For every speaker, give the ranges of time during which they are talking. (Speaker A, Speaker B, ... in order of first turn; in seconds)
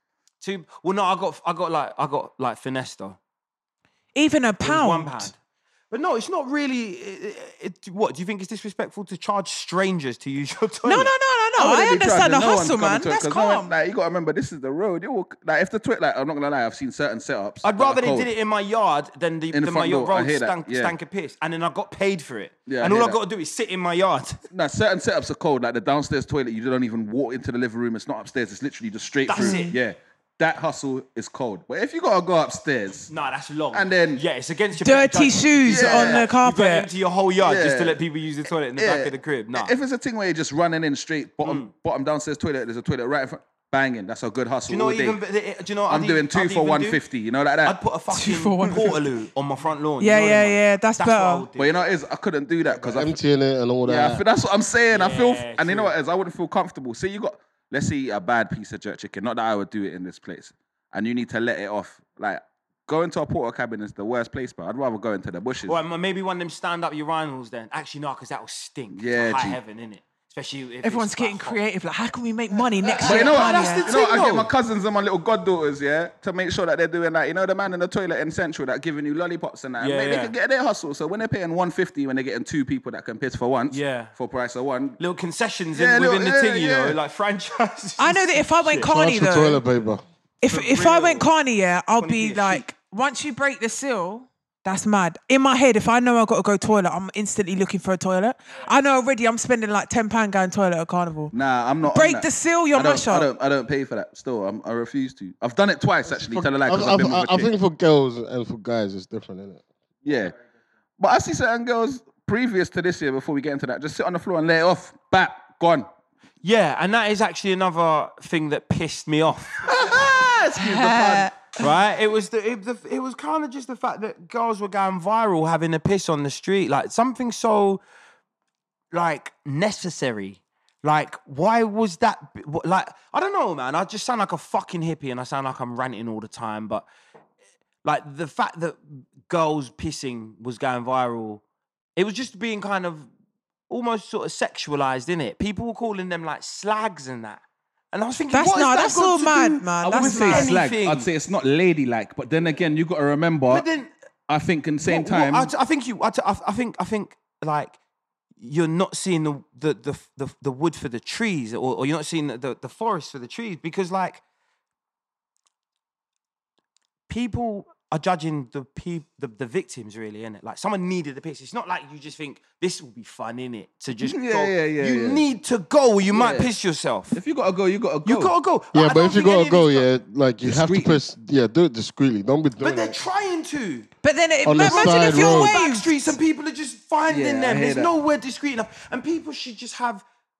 Speaker A: 0.4-3.2, 4.6-5.3, 5.9-11.1, 17.6-24.4, 29.3-29.7, 33.1-39.7, 41.4-41.7, 44.7-47.0, 47.6-51.8, 54.9-55.9, 65.7-71.6, 72.8-74.5, 79.8-80.3, 83.7-84.1, 85.0-88.9, 90.5-91.3, 92.0-92.6, 116.4-119.8, 121.6-127.8, 128.9-136.8, 137.8-141.4, 141.9-143.1, 143.7-151.1, 153.5-153.9, 154.8-157.8, 158.4-164.2, 167.1-177.2, 178.0-179.8, 182.6-183.9, 184.5-190.0
Speaker B: 4.1-5.3, 10.8-13.7, 29.3-29.7, 34.8-36.9, 48.1-49.0, 50.0-51.5, 70.8-73.9, 88.0-89.6, 90.4-103.3, 120.6-121.6, 148.3-150.5, 184.0-186.2
Speaker C: 11.6-18.3, 19.5-20.9, 22.7-23.2, 24.5-33.1, 33.7-34.2, 35.6-36.3, 37.4-38.0, 38.8-45.2, 45.9-47.8, 51.5-53.1, 53.8-65.8, 68.9-69.6, 73.0-85.0, 85.7-87.0, 101.3-107.5, 110.0-110.3, 111.0-115.9, 119.7-121.3, 149.9-153.7, 154.3-155.5, 174.0-175.2, 176.1-176.5, 177.1-178.3, 180.4-181.0, 187.1-187.9
Speaker D: 52.8-54.2, 88.9-90.0, 106.1-109.6, 178.7-183.0, 184.4-185.6